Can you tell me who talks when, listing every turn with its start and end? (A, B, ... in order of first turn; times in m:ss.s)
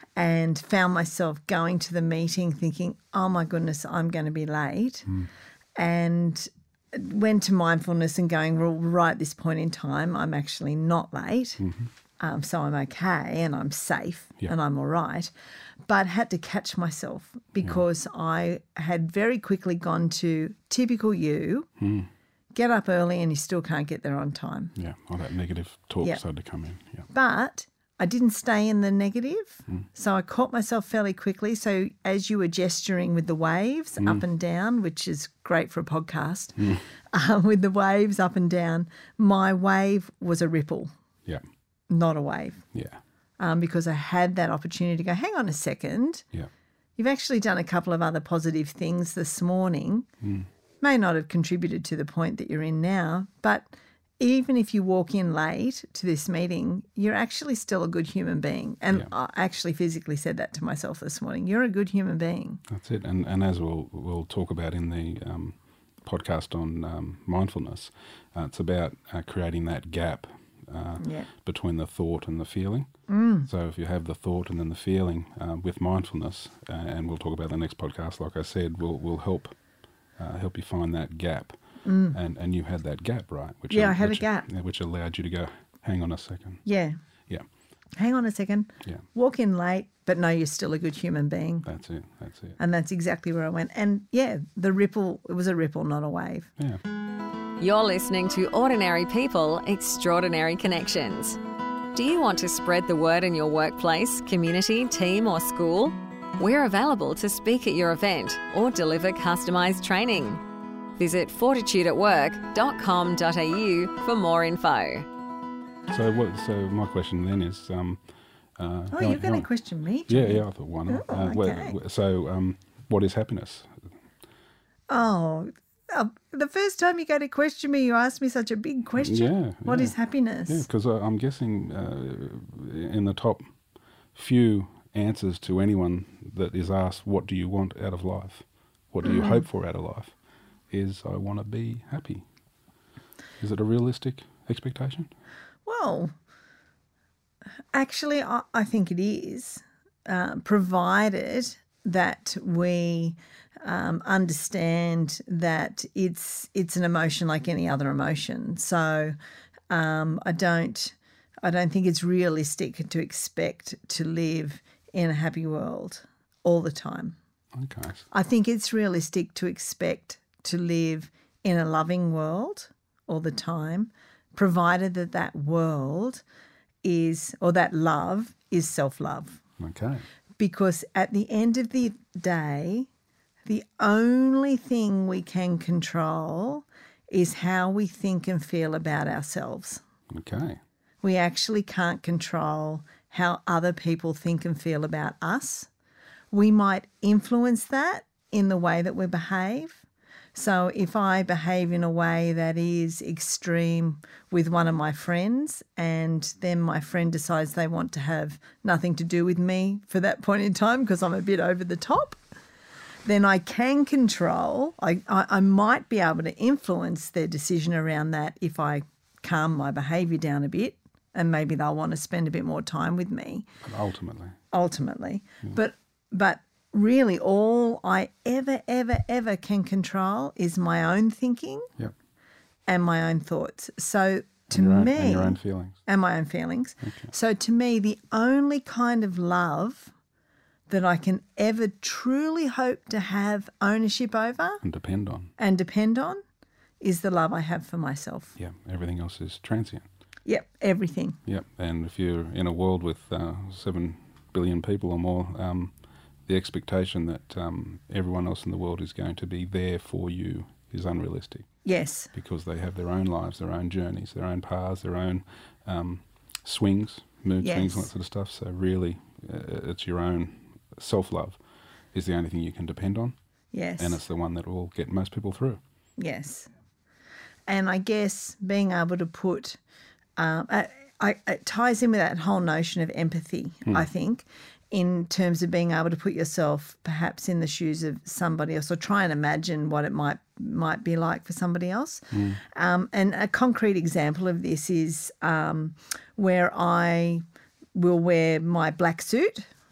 0:00.2-0:05.1 A
0:05.8-0:11.6 A
0:11.6-0:11.9 B
0:12.2-0:15.3 A
0:15.9-0:21.7 A
0:21.8-0:22.1 B
0:22.6-0:24.7 A
0:24.8-0:27.1 B
0:27.1-0:40.9 A
0:34.0-0:34.2 B
0:36.6-0:36.8 B
0:41.9-0:42.6 A
0:42.7-0:43.0 B
0:43.4-0:46.2 A
0:47.0-0:50.1 A
0:50.2-0:50.5 B
0:50.8-1:02.6 A
1:02.7-1:12.9 B
1:11.0-1:11.3 A
1:13.1-1:13.5 A
1:13.4-1:19.6 B
1:20.2-1:21.6 B
1:21.8-1:22.2 A
1:22.1-1:26.6 B
1:23.7-1:24.5 A
1:26.6-1:27.0 A
1:28.0-1:31.7 A
1:31.6-1:32.6 B
1:32.6-1:36.5 A
1:37.6-1:41.4 C
1:41.9-1:50.4 C
1:51.0-1:55.1 C
1:55.9-1:58.0 B
1:58.6-1:59.5 B
1:58.9-2:01.8 A
2:00.1-2:03.8 B
2:04.9-2:10.6 A
2:09.0-2:10.0 B
2:10.5-2:13.5 B
2:14.1-2:20.1 B
2:19.0-2:19.4 A
2:20.7-2:22.2 B
2:23.4-2:25.1 B
2:25.7-2:26.1 A
2:27.7-2:39.2 A
2:39.7-2:47.2 A
2:47.6-2:48.0 B
2:48.1-2:56.2 A
2:56.8-2:59.4 A
2:59.6-3:00.0 B
3:00.4-3:02.9 A
3:03.5-3:09.8 A
3:10.1-3:10.6 B
3:11.0-3:15.7 A
3:16.3-3:19.8 A
3:20.4-3:32.2 A
3:33.0-3:43.5 A
3:43.6-3:44.4 B
3:44.5-3:51.7 A
3:52.7-3:59.9 A
3:54.5-3:55.8 B
3:56.8-3:57.1 B
4:00.7-4:04.6 A
4:04.6-4:05.3 B
4:05.4-4:06.2 A
4:06.8-4:08.3 A
4:08.4-4:09.9 B
4:10.3-4:11.2 A
4:11.3-4:15.7 B
4:16.3-4:21.5 B
4:21.6-4:22.1 A
4:22.1-4:31.4 B
4:27.4-4:27.9 A
4:31.9-4:33.2 B
4:33.5-4:34.0 A
4:33.8-4:35.6 B
4:36.0-4:36.5 A
4:37.5-4:39.6 A
4:40.2-4:57.2 A
4:52.1-4:52.4 B
4:57.8-4:59.5 A